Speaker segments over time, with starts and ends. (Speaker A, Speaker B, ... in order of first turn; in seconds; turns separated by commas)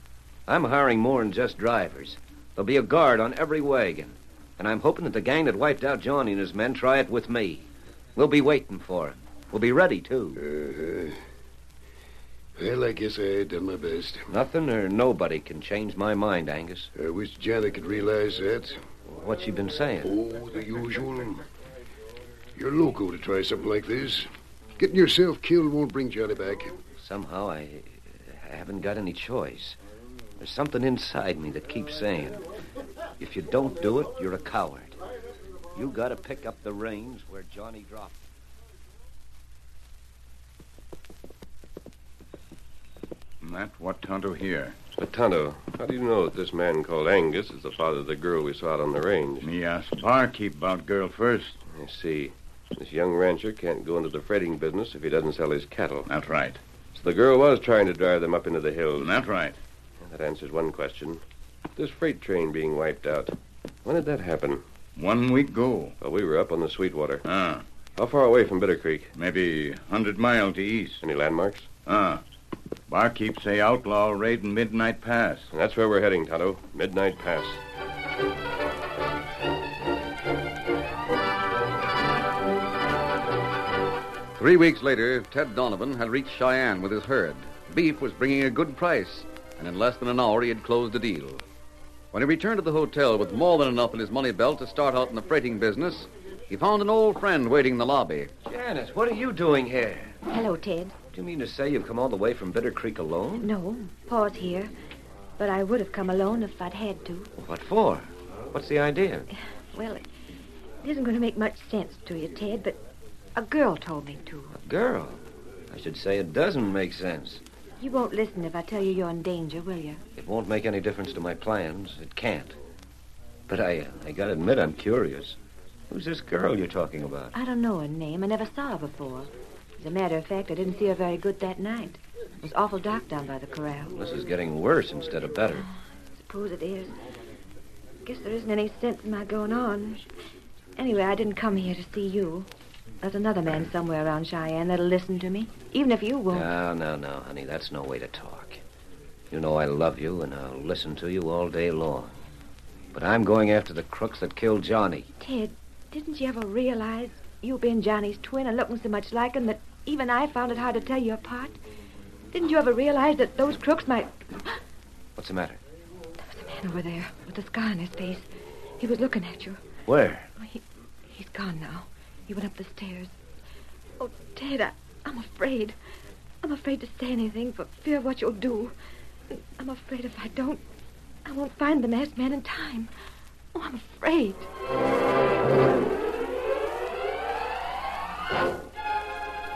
Speaker A: 0.5-10.4, Speaker B: 10.4-11.2, Speaker B: 12.6-14.3, Speaker A: 14.3-16.9, Speaker B: 16.9-18.8, Speaker A: 19.1-20.1, Speaker B: 20.0-21.4, Speaker B: 22.6-24.3, Speaker B: 24.8-26.8, Speaker A: 27.0-29.8, Speaker A: 30.4-32.4, Speaker A: 33.2-35.0, Speaker A: 35.7-38.2, Speaker C: 43.4-44.8, Speaker D: 45.0-49.5, Speaker C: 49.4-51.6, Speaker D: 51.7-56.1, Speaker C: 56.1-56.6, Speaker D: 56.9-59.1, Speaker C: 59.0-59.6, Speaker D: 60.0-61.2, Speaker D: 61.8-64.6, Speaker C: 65.0-65.9, Speaker D: 66.0-67.2, Speaker C: 67.2-67.6, Speaker D: 68.0-69.1, Speaker C: 69.2-71.0, Speaker D: 71.0-71.7, Speaker C: 71.9-72.2, Speaker C: 72.9-75.5, Speaker D: 75.5-77.6, Speaker E: 84.4-91.4, Speaker E: 92.1-98.3, Speaker A: 98.5-100.2, Speaker F: 100.3-101.0, Speaker A: 101.1-103.5, Speaker F: 103.4-104.7, Speaker F: 105.4-107.3, Speaker A: 107.5-109.3, Speaker F: 109.7-110.0, Speaker F: 110.8-112.8, Speaker F: 113.4-114.5, Speaker A: 114.6-117.4, Speaker F: 117.8-120.0, Speaker A: 120.2-122.6, Speaker A: 123.5-125.4, Speaker A: 125.9-127.3, Speaker F: 127.3-133.9, Speaker A: 133.9-135.7, Speaker F: 136.2-136.9, Speaker F: 138.1-140.0, Speaker F: 140.8-142.5, Speaker F: 143.0-146.5, Speaker A: 146.3-148.6, Speaker A: 149.3-152.2, Speaker A: 152.9-155.1, Speaker F: 155.2-161.6, Speaker F: 162.3-164.6, Speaker A: 165.2-165.6, Speaker F: 166.3-168.3, Speaker F: 168.8-169.6, Speaker A: 169.9-170.3, Speaker F: 170.4-173.1, Speaker F: 174.0-175.8, Speaker F: 176.4-178.7, Speaker F: 179.3-180.6, Speaker F: 181.2-182.9, Speaker F: 183.5-184.5